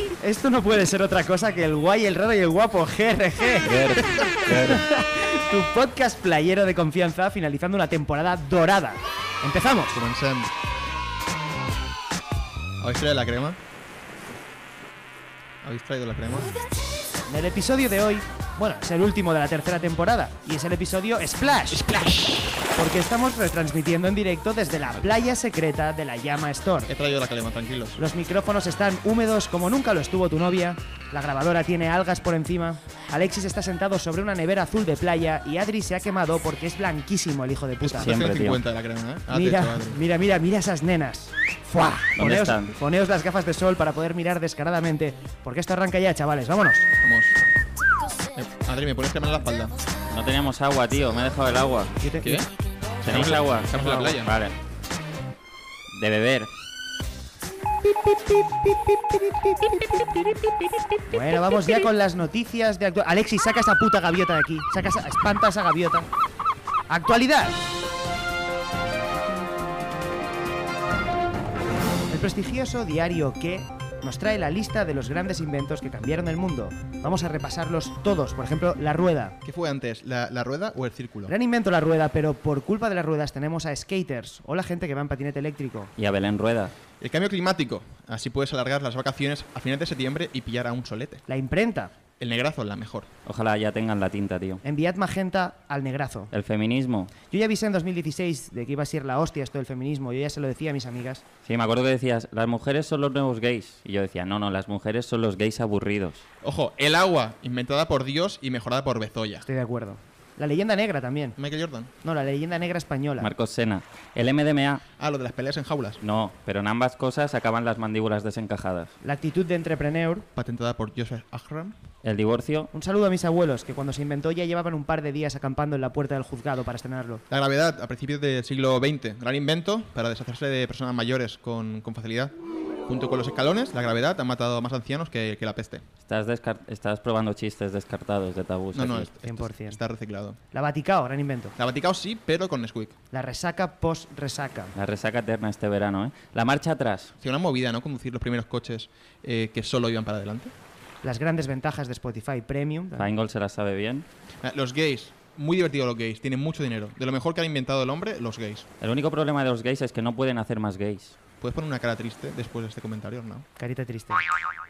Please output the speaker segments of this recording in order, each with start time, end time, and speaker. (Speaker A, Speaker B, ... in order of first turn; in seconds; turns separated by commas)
Speaker A: 0.2-3.8, Speaker B: 3.6-4.9, Speaker A: 4.4-10.0, Speaker C: 9.9-10.5, Speaker C: 12.8-13.6, Speaker C: 15.6-16.6, Speaker A: 17.3-21.8, Speaker C: 21.7-22.7, Speaker A: 22.8-26.9, Speaker C: 26.9-28.0, Speaker A: 28.0-38.1, Speaker C: 37.8-40.0, Speaker B: 38.0-38.6, Speaker A: 39.3-46.9, Speaker B: 42.2-42.7, Speaker C: 47.0-47.4, Speaker C: 48.4-49.7, Speaker B: 50.1-52.0, Speaker A: 52.0-52.5, Speaker C: 52.2-52.5, Speaker C: 53.0-54.3, Speaker B: 53.0-54.5, Speaker B: 55.9-56.5, Speaker A: 61.1-66.1, Speaker A: 66.9-67.6, Speaker A: 72.1-79.4, Speaker C: 79.4-81.3, Speaker A: 81.3-85.9, Speaker B: 86.0-86.7, Speaker C: 87.0-91.2, Speaker A: 91.3-91.9, Speaker C: 92.2-93.1, Speaker B: 93.3-94.6, Speaker A: 94.6-96.3, Speaker B: 96.3-97.1, Speaker A: 97.3-101.2, Speaker B: 101.5-106.2, Speaker C: 106.4-109.5, Speaker A: 109.4-111.4, Speaker C: 111.4-111.9, Speaker A: 112.0-113.3, Speaker B: 113.2-114.8, Speaker C: 115.0-116.0, Speaker B: 116.0-118.9, Speaker A: 119.0-120.3, Speaker C: 120.4-121.8, Speaker B: 122.0-122.7, Speaker A: 122.7-127.2, Speaker C: 127.3-132.3, Speaker C: 132.9-135.8, Speaker B: 136.1-139.1, Speaker C: 138.7-140.4, Speaker A: 139.2-139.8, Speaker A: 140.5-141.6, Speaker C: 141.6-143.0, Speaker A: 143.1-144.7, Speaker B: 144.8-147.1, Speaker C: 147.2-150.5, Speaker A: 151.0-153.1, Speaker B: 153.0-154.1, Speaker C: 154.4-158.7, Speaker B: 158.8-161.2, Speaker C: 161.4-163.5, Speaker A: 163.6-164.2